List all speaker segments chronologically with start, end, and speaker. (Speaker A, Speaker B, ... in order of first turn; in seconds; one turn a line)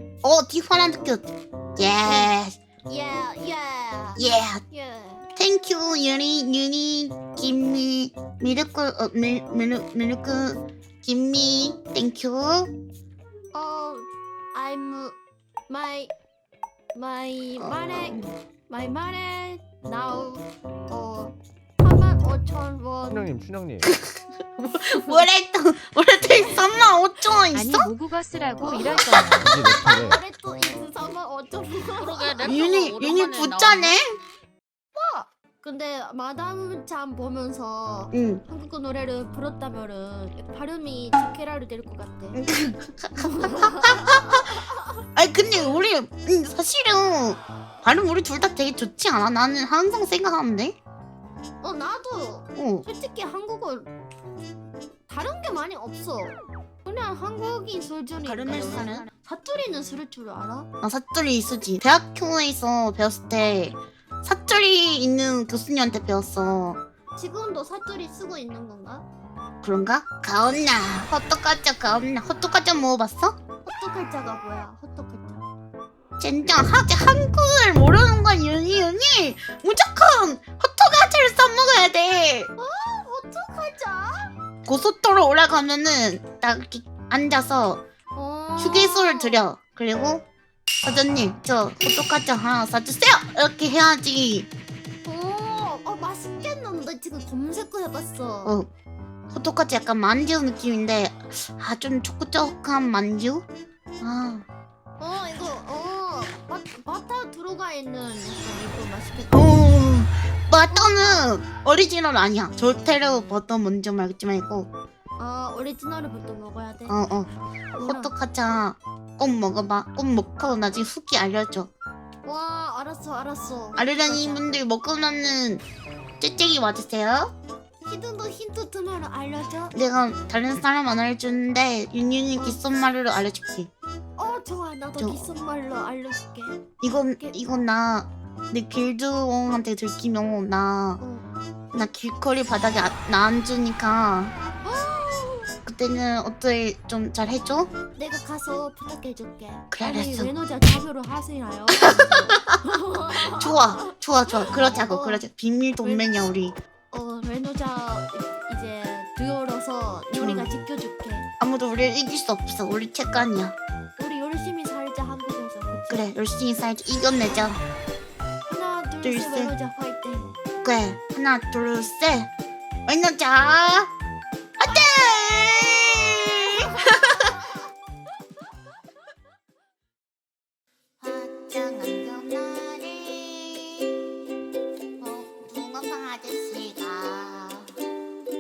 Speaker A: 0.2-2.6
Speaker B: 2.0-2.3
Speaker B: 2.9-5.3
Speaker A: 4.2-4.6
Speaker A: 5.4-12.7
Speaker B: 13.5-15.2
Speaker B: 15.7-16.1
Speaker B: 16.9-23.3
Speaker A: 17.6-18.3
Speaker C: 23.1-23.9
Speaker A: 23.9-27.9
Speaker D: 27.5-29.5
Speaker B: 28.6-32.5
Speaker C: 29.1-30.2
Speaker D: 31.9-34.0
Speaker A: 32.4-34.2
Speaker B: 35.0-42.4
Speaker A: 38.1-38.4
Speaker A: 42.3-44.6
Speaker B: 43.2-45.0
Speaker A: 45.1-50.8
Speaker B: 51.6-53.9
Speaker A: 52.6-52.9
Speaker B: 55.1-60.7
Speaker A: 58.2-59.1
Speaker A: 60.8-66.8
Speaker B: 67.2-69.1
Speaker A: 69.6-73.4
Speaker B: 73.6-75.4
Speaker A: 76.2-82.5
Speaker B: 82.6-84.3
Speaker A: 84.7-87.8
Speaker B: 88.2-89.4
Speaker A: 88.6-90.2
Speaker A: 90.8-94.5
Speaker B: 95.0-98.6
Speaker A: 99.3-103.5
Speaker A: 104.0-104.5
Speaker B: 105.0-109.6
Speaker A: 109.3-114.7
Speaker B: 110.7-111.3
Speaker B: 115.2-117.0
Speaker A: 116.9-117.3
Speaker B: 117.8-118.1
Speaker A: 117.8-121.7
Speaker B: 122.2-124.6
Speaker A: 123.8-125.6
Speaker A: 126.2-127.3
Speaker B: 127.8-129.7
Speaker A: 129.7-133.7
Speaker B: 134.2-136.6
Speaker A: 135.0-135.3
Speaker A: 136.8-141.0
Speaker B: 141.0-141.3
Speaker A: 141.7-144.3
Speaker B: 144.6-145.5
Speaker A: 145.7-147.7
Speaker B: 148.0-153.9
Speaker A: 149.7-150.3
Speaker A: 151.8-152.6
Speaker A: 153.2-156.6
Speaker B: 154.7-155.3
Speaker B: 155.8-156.1
Speaker B: 156.9-161.3
Speaker A: 160.2-160.5
Speaker A: 161.4-163.6
Speaker B: 164.0-166.1
Speaker A: 165.9-167.6
Speaker B: 168.5-170.3
Speaker A: 169.0-169.5
Speaker A: 170.6-172.3
Speaker A: 172.9-173.9
Speaker A: 174.6-177.4
Speaker B: 176.5-176.9
Speaker A: 181.0-184.0
Speaker A: 185.0-187.7